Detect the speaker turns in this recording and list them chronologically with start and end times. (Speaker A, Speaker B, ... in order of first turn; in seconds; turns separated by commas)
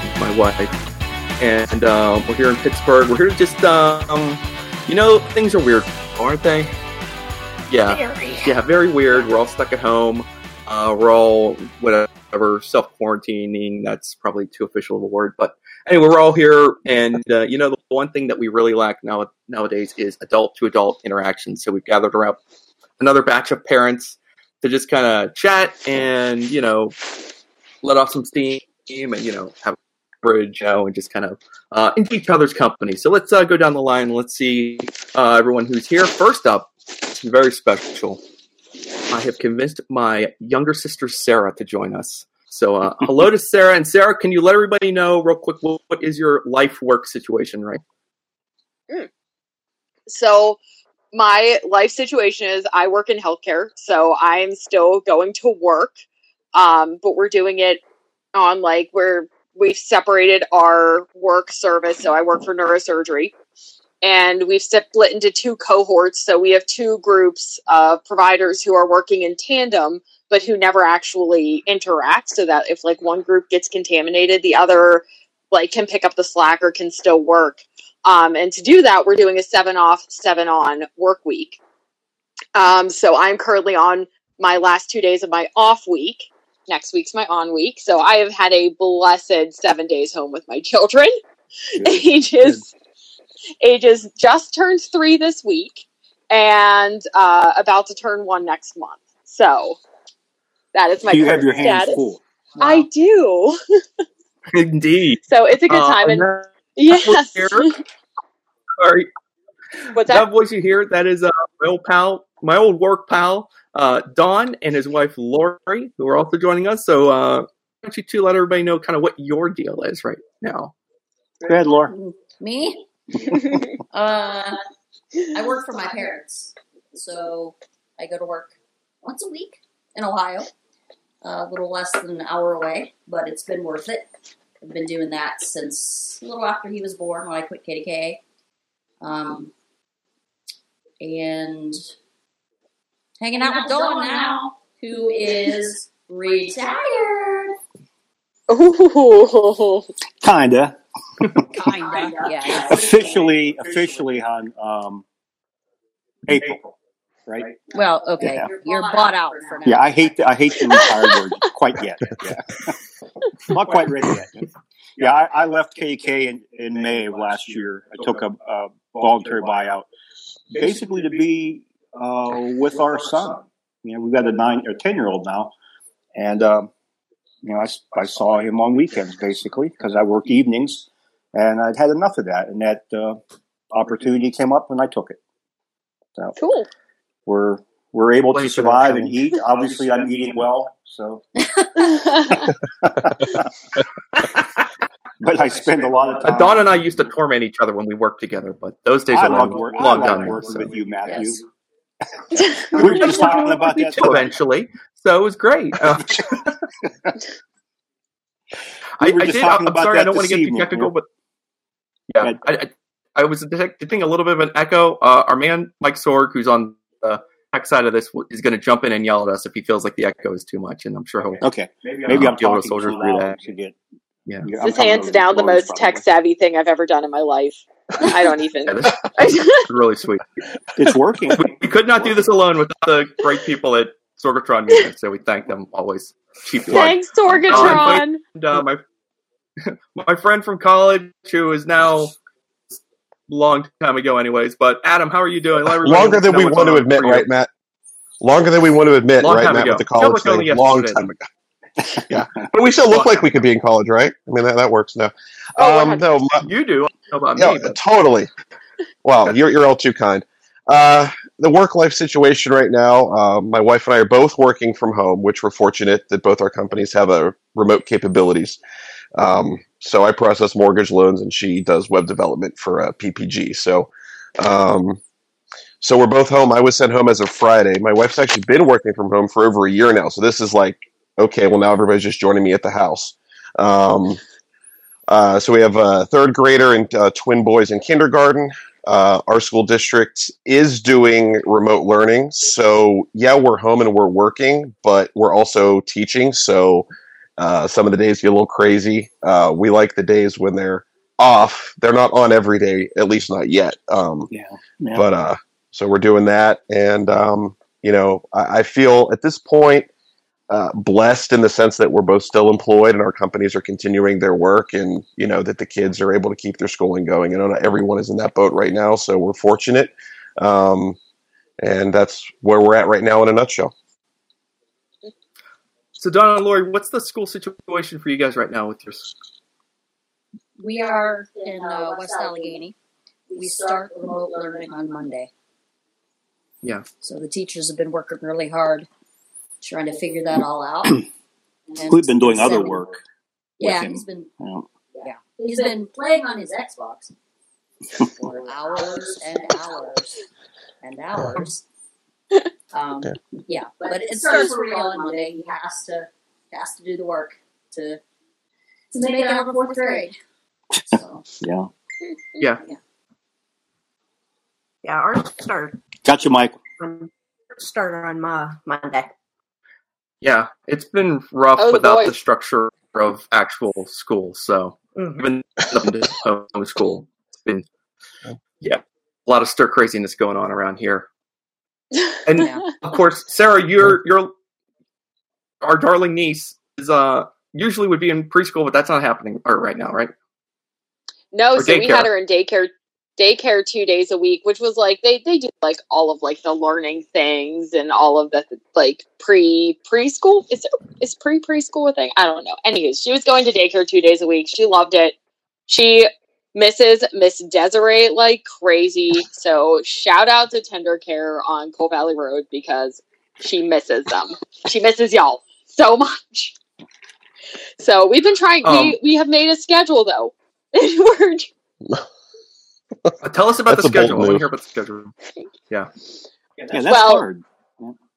Speaker A: 0.1-0.7, Speaker A: 1.4-6.7, Speaker A: 7.7-22.4, Speaker B: 7.9-8.5, Speaker A: 23.0-26.9, Speaker A: 27.8-38.2, Speaker A: 39.1-47.8, Speaker C: 50.1-50.6, Speaker C: 51.1-55.9, Speaker C: 56.5-57.8, Speaker C: 58.3-63.3, Speaker C: 64.0-81.6, Speaker C: 82.5-91.2, Speaker D: 91.8-92.6, Speaker C: 91.8-92.7, Speaker C: 93.6-99.8, Speaker C: 100.7-102.0, Speaker D: 101.1-102.2, Speaker C: 102.6-103.8, Speaker A: 104.5-107.7, Speaker C: 105.3-107.7, Speaker A: 108.8-109.1, Speaker C: 109.9-110.3, Speaker A: 110.1-120.7, Speaker D: 121.5-121.9, Speaker E: 121.9-124.6, Speaker E: 125.3-130.5, Speaker E: 131.2-134.1, Speaker E: 134.6-138.2, Speaker E: 139.0-139.5, Speaker E: 141.0-141.8, Speaker E: 143.2-147.5, Speaker C: 148.5-149.9, Speaker D: 150.2-150.8, Speaker E: 151.5-153.3, Speaker D: 152.7-155.0, Speaker D: 156.3-156.7, Speaker D: 157.3-157.6, Speaker E: 157.7-160.2, Speaker D: 158.2-158.5, Speaker D: 159.6-162.7, Speaker D: 163.4-169.9, Speaker D: 170.5-175.5, Speaker D: 176.1-176.7, Speaker D: 177.4-183.2, Speaker D: 183.7-185.2, Speaker C: 186.4-186.7, Speaker D: 187.2-191.2, Speaker A: 188.3-189.3, Speaker C: 191.8-192.5, Speaker D: 192.5-193.5, Speaker D: 195.2-196.8, Speaker A: 196.2-200.7, Speaker D: 199.1-201.4, Speaker E: 201.1-201.3, Speaker C: 202.4-202.6, Speaker D: 202.6-204.3, Speaker A: 202.7-206.5, Speaker D: 209.0-210.9, Speaker A: 209.0-211.0, Speaker A: 212.1-221.4, Speaker D: 221.4-223.8, Speaker A: 222.1-223.4, Speaker D: 224.4-226.0, Speaker C: 224.6-229.7, Speaker A: 228.7-230.2, Speaker D: 230.8-232.2, Speaker A: 231.3-238.8, Speaker D: 236.7-236.9, Speaker C: 236.7-238.2, Speaker D: 237.5-237.9, Speaker A: 239.6-242.2, Speaker A: 243.3-247.3, Speaker F: 245.8-247.5, Speaker F: 248.2-251.2, Speaker A: 249.2-251.1, Speaker F: 252.1-256.4, Speaker A: 252.9-253.2, Speaker C: 255.6-256.0, Speaker A: 256.4-257.8, Speaker F: 257.4-258.3, Speaker F: 259.0-268.6, Speaker F: 269.1-275.0, Speaker F: 275.8-284.2, Speaker F: 285.1-304.3, Speaker D: 304.3-305.1, Speaker F: 304.9-309.9, Speaker F: 310.5-321.0, Speaker F: 321.6-323.7, Speaker A: 326.0-329.1, Speaker E: 330.6-332.7, Speaker E: 333.3-335.3, Speaker E: 337.0-338.9, Speaker E: 339.6-341.1, Speaker E: 341.7-342.8, Speaker D: 341.8-343.0, Speaker E: 343.6-344.3, Speaker D: 343.6-344.7, Speaker E: 345.0-347.1, Speaker E: 348.0-350.2, Speaker E: 350.8-351.6, Speaker E: 352.7-358.0, Speaker E: 358.9-360.1, Speaker E: 360.9-361.2, Speaker D: 361.4-361.7, Speaker B: 364.8-365.8, Speaker D: 366.0-366.6, Speaker B: 366.8-369.1, Speaker A: 370.2-377.6, Speaker C: 371.6-372.1, Speaker B: 374.9-375.2, Speaker A: 378.6-381.1, Speaker A: 382.2-384.3, Speaker E: 382.3-382.7, Speaker A: 385.6-390.1, Speaker C: 391.3-405.1, Speaker A: 391.6-392.1, Speaker C: 405.7-416.5, Speaker C: 417.8-421.5, Speaker A: 418.6-419.0, Speaker A: 423.2-425.1, Speaker F: 423.6-424.4, Speaker D: 426.7-427.9, Speaker C: 426.9-427.2